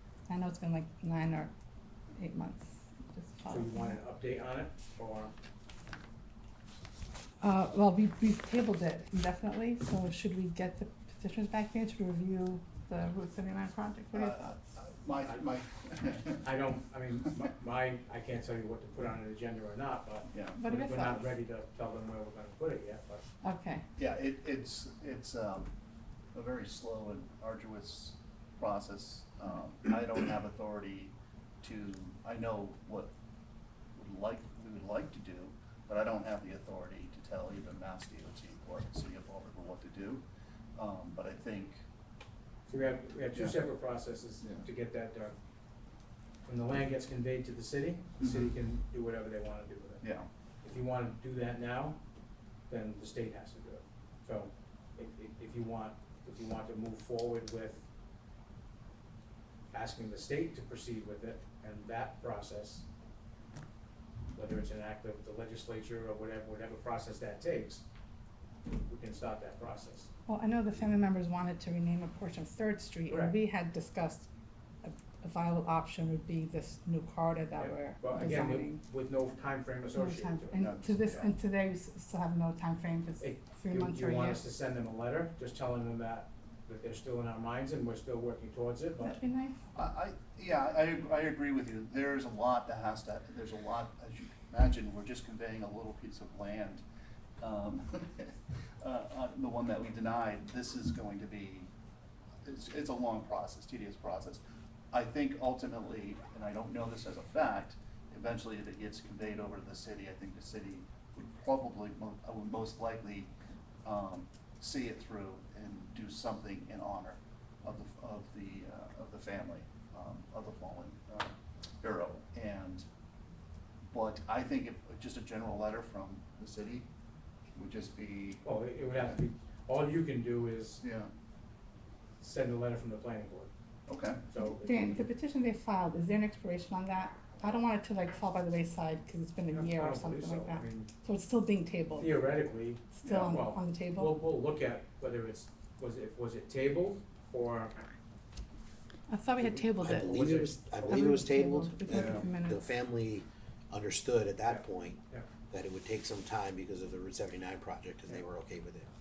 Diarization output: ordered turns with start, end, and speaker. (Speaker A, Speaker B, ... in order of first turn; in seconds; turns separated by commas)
Speaker A: 0.3-1.5, Speaker A: 2.2-4.0, Speaker B: 3.5-5.3, Speaker A: 7.4-14.4, Speaker C: 14.1-16.4, Speaker B: 16.4-23.2, Speaker C: 20.3-20.6, Speaker A: 20.6-21.3, Speaker A: 23.4-23.8, Speaker C: 24.0-25.7, Speaker C: 26.3-33.1, Speaker C: 34.0-40.2, Speaker C: 40.8-41.8, Speaker B: 42.7-45.4, Speaker C: 43.3-43.6, Speaker C: 44.4-44.7, Speaker B: 46.5-50.0, Speaker C: 48.2-48.5, Speaker C: 50.0-50.3, Speaker B: 50.6-52.0, Speaker B: 52.7-57.9, Speaker B: 59.7-62.8, Speaker B: 64.3-67.8, Speaker B: 68.7-70.1, Speaker A: 70.3-74.3, Speaker B: 73.1-73.4, Speaker A: 74.8-78.8, Speaker B: 77.6-80.6, Speaker C: 78.1-78.5, Speaker A: 80.0-84.4, Speaker C: 80.5-81.3, Speaker B: 83.2-89.2, Speaker A: 89.0-89.6, Speaker C: 89.7-96.8, Speaker C: 97.4-101.7, Speaker C: 102.5-104.4, Speaker C: 104.9-113.3, Speaker C: 113.8-122.8, Speaker C: 123.9-126.9, Speaker C: 127.5-128.4, Speaker B: 128.4-130.8, Speaker C: 130.8-131.1, Speaker B: 132.2-133.5, Speaker C: 133.9-134.2, Speaker B: 134.3-135.1, Speaker A: 134.5-142.2, Speaker B: 139.5-140.9, Speaker B: 142.0-147.8, Speaker A: 142.9-144.1, Speaker C: 143.0-143.4, Speaker A: 149.1-152.7, Speaker D: 149.4-158.9, Speaker B: 150.1-151.1, Speaker C: 151.9-152.2, Speaker B: 154.5-155.3